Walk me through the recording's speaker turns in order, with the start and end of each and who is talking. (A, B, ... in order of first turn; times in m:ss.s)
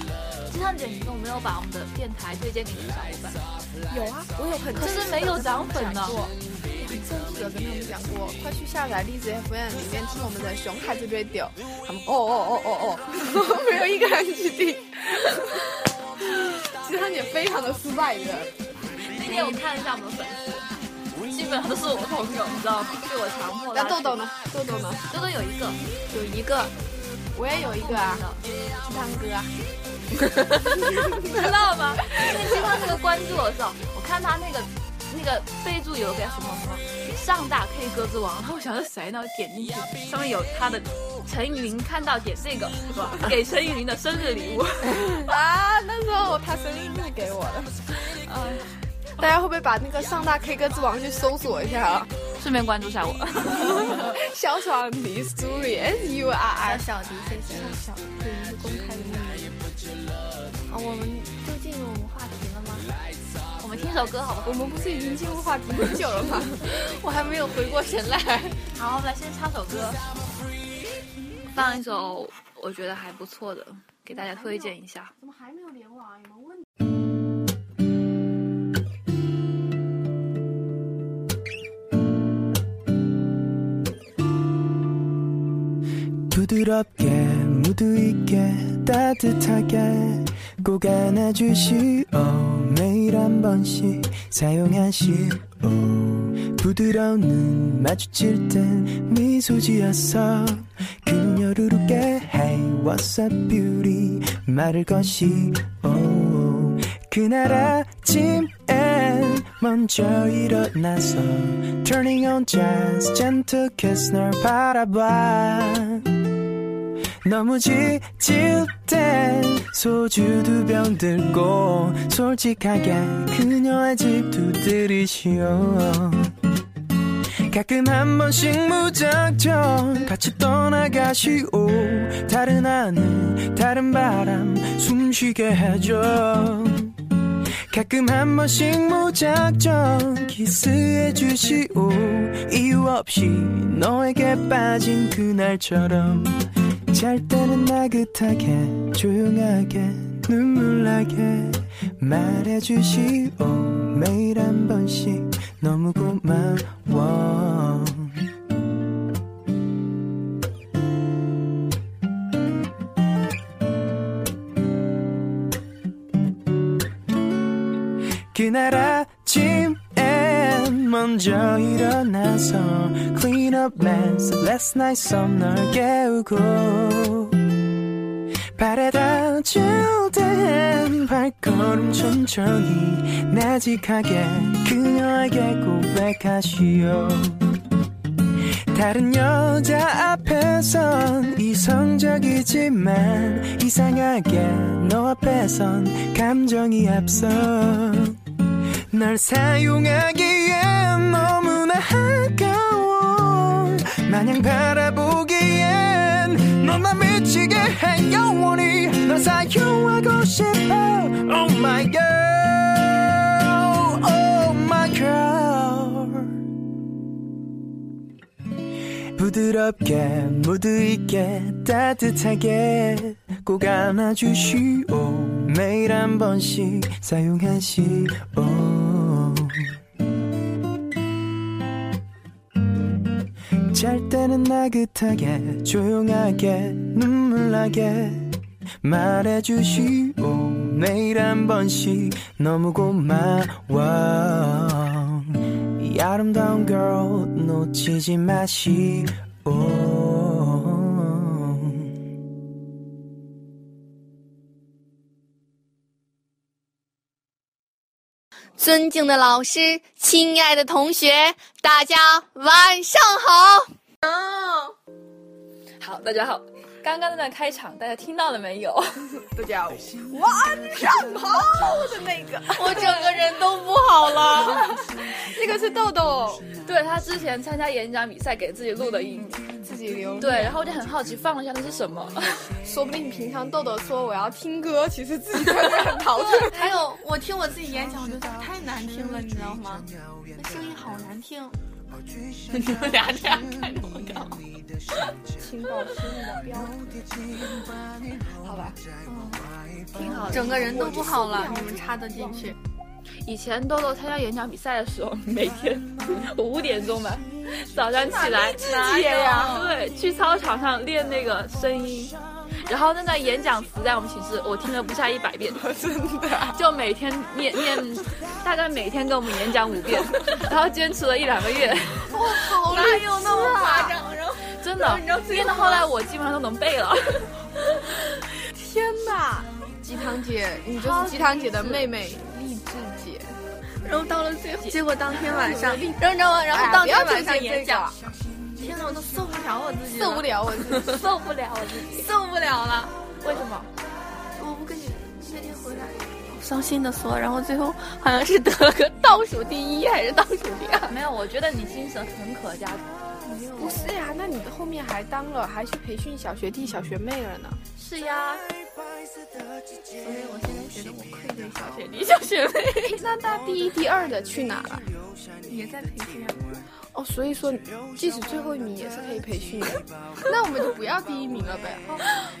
0:00.5-0:03.4 A
0:03.9-0:18.5 B
0:04.7-0:06.2 A
0:19.1-0:20.7 A
0:19.2-0:19.6 B
0:21.2-0:24.2 A
0:23.7-0:25.0 B
0:25.1-0:25.8 A
0:26.1-0:26.7 C
0:27.3-0:28.3 B
0:27.5-0:28.4 A
0:28.9-0:29.5 B
0:29.2-0:29.5 C
0:31.1-0:45.2 A
0:32.2-0:32.8 B
0:45.2-0:47.9 B
0:48.2-0:48.7 A
0:49.2-0:52.1 B
0:52.4-0:54.1 A
0:53.5-0:56.8 B
0:56.6-0:58.2 C
0:58.0-0:59.6 B
1:00.7-1:02.9 C
1:03.6-1:04.5 A
1:04.4-1:06.6 B
1:06.6-1:08.6 C
1:08.7-1:10.0 A
1:11.5-1:15.1 A
1:14.1-1:16.6 B
1:26.3-1:56.1 D
1:57.2-2:06.3 D
2:07.5-2:17.0 D
2:17.7-2:38.2 D
2:48.3-2:57.4 D
2:58.5-3:07.4 D
3:08.7-3:18.2 D
3:18.9-3:36.3 D
3:39.2-3:49.7 D
3:53.7-4:11.9 D
4:18.6-4:24.5 C
4:24.3-4:24.6 B
4:25.8-4:29.1 A
4:29.3-4:33.2 B
4:32.5-4:34.7 C
4:34.2-4:36.4 B
4:36.6-4:39.4 A
4:39.6-4:40.6 B
4:40.2-4:42.5 A
4:42.6-4:46.8 B
4:46.2-4:51.6 C
4:52.5-4:54.4 C
4:55.4-4:57.4 B
4:59.9-5:00.7 A
5:00.0-5:01.8 B
5:00.0-5:02.6 C
5:03.2-5:12.1 A
5:08.2-5:09.7 B
5:08.3-5:09.7 C
5:12.6-5:15.6 A
5:15.6-5:16.6 B
5:16.5-5:22.1 A
5:22.1-5:24.0 B
5:22.4-5:25.9 C
5:24.5-5:27.4 A
5:28.5-5:33.4 B
5:30.8-5:31.9 A
5:33.8-5:37.9 C
5:35.1-5:38.0 B
5:38.6-5:41.1 C
5:40.0-5:41.0 B
5:40.7-5:42.1 A
5:41.9-5:42.9 C
5:43.2-5:43.7 A
5:44.4-5:50.9 C
5:50.8-5:52.9 A
5:53.2-5:53.9 C
5:53.6-5:57.6 B
5:57.8-5:58.4 A
6:00.0-6:02.1 C
6:01.7-6:02.9 A
6:02.8-6:04.9 B
6:05.5-6:06.4 C
6:06.9-6:12.0 B